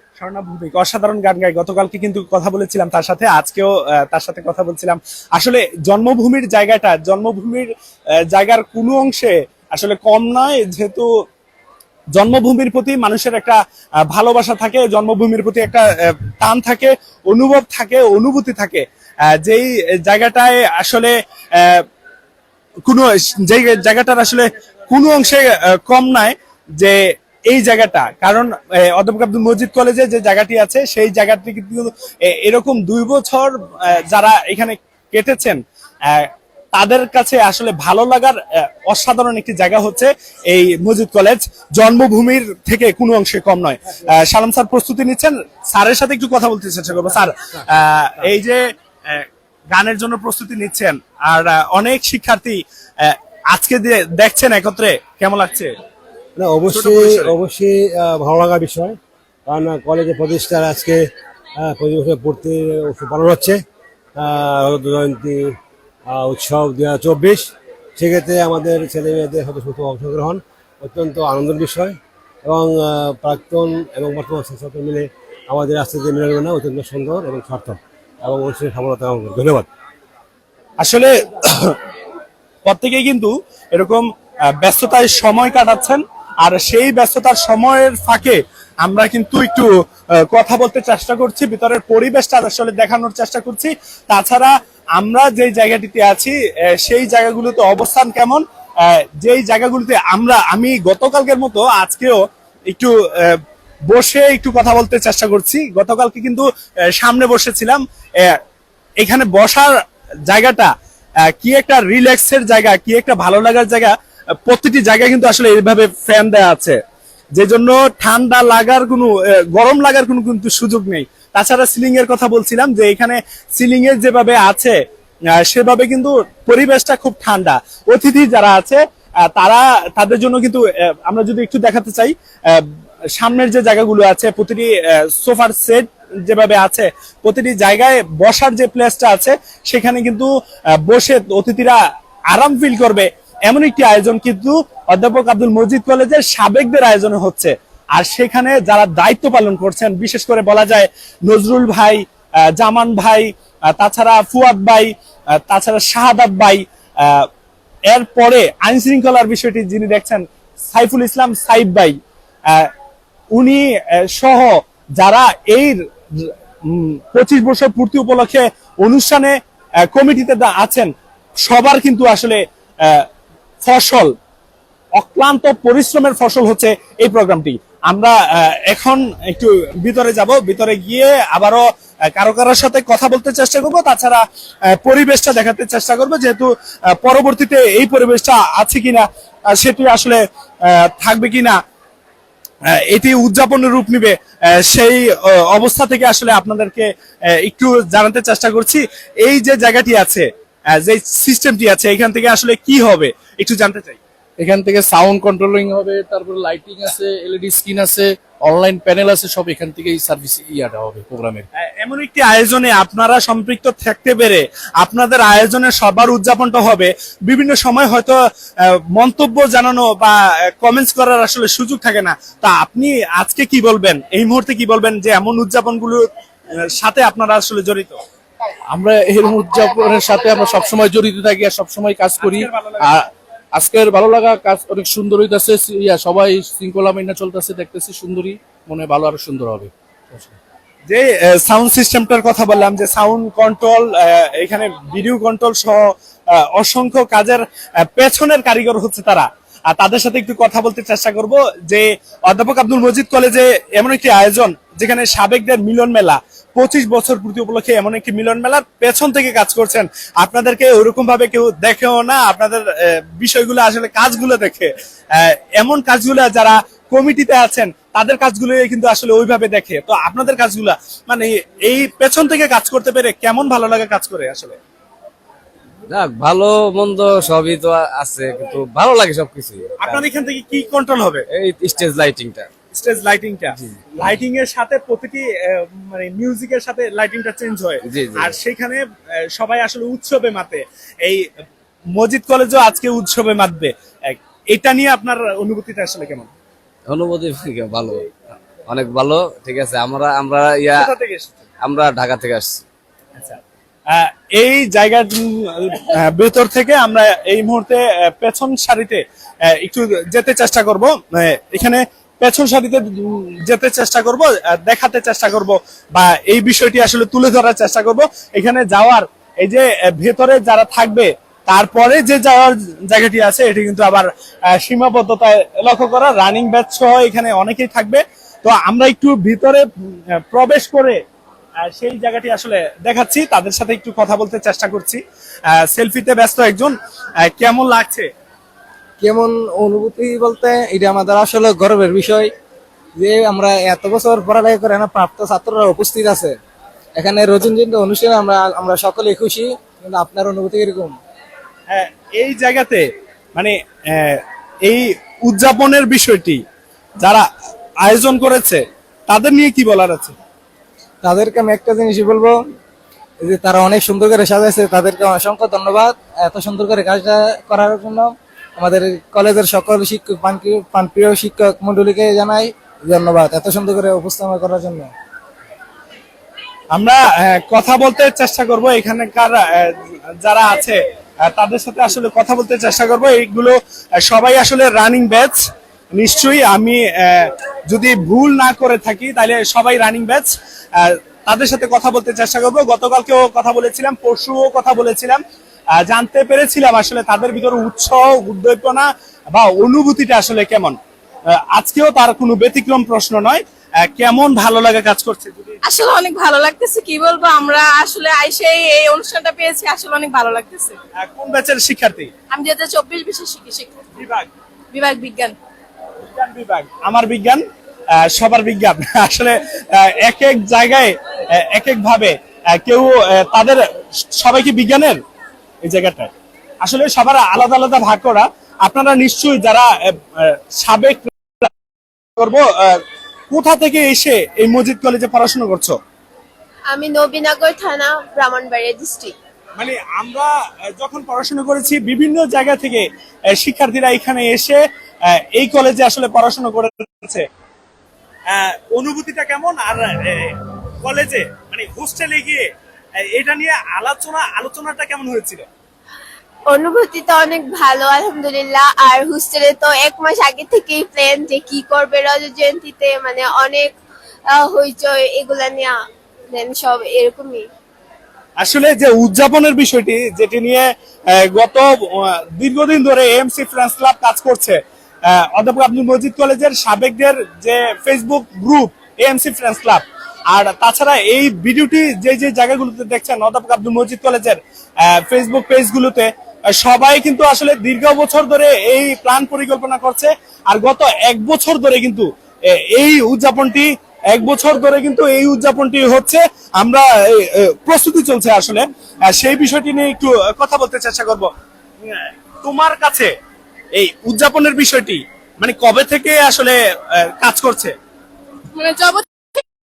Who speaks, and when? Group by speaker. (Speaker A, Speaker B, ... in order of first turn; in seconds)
Speaker A: 0.2-7.7, 8.3-11.1, 12.1-13.6, 14.1-21.8, 22.9-55.7, 56.7-57.3, 80.8-81.8, 82.7-89.7, 90.3-106.4, 107.0-108.4, 109.0-109.7, 110.3-110.7, 111.4-113.9, 114.5-116.8, 117.3-124.7, 125.5-140.3, 140.8-141.8, 142.3-152.0, 152.6-154.9, 155.5-157.3, 157.9-161.9, 163.3-169.3, 169.9-170.9, 171.4-173.0, 173.6-174.1, 175.0-181.6, 182.1-184.2, 184.8-191.6, 192.7-204.0, 211.6-228.0, 232.2-232.8, 240.9-274.6, 279.8-281.2, 282.7-288.8, 289.3-291.2, 291.9-296.3, 300.8-301.4, 303.9-329.6, 330.3-331.0, 331.6-338.1, 351.7-356.4, 357.8-360.1, 376.7-385.4, 385.9-395.2, 395.8-400.8, 401.3-405.6, 411.0-412.1, 413.9-414.3, 416.1-417.4, 417.9-423.6, 424.2-425.0, 425.6-426.1, 426.6-431.5, 432.2-435.8, 439.6-447.2, 448.3-452.5, 453.0-455.4, 468.4-501.3, 501.8-503.1, 503.8-507.7
Speaker B: 56.4-61.0, 61.6-63.6, 64.2-65.6, 66.1-79.7
Speaker C: 204.4-211.4, 228.7-233.0, 233.5-240.3
Speaker D: 275.9-280.0, 281.3-282.5, 283.5-283.8, 287.9-288.4, 296.9-298.0, 298.7-300.9, 301.6-302.6
Speaker E: 339.0-342.3, 343.0-346.3, 347.0-350.9, 361.0-362.4, 363.2-374.9
Speaker F: 405.6-410.8, 412.3-413.8, 414.7-415.3, 508.5-509.1
Speaker G: 436.7-439.1, 456.5-463.7, 464.3-465.8, 466.3-467.5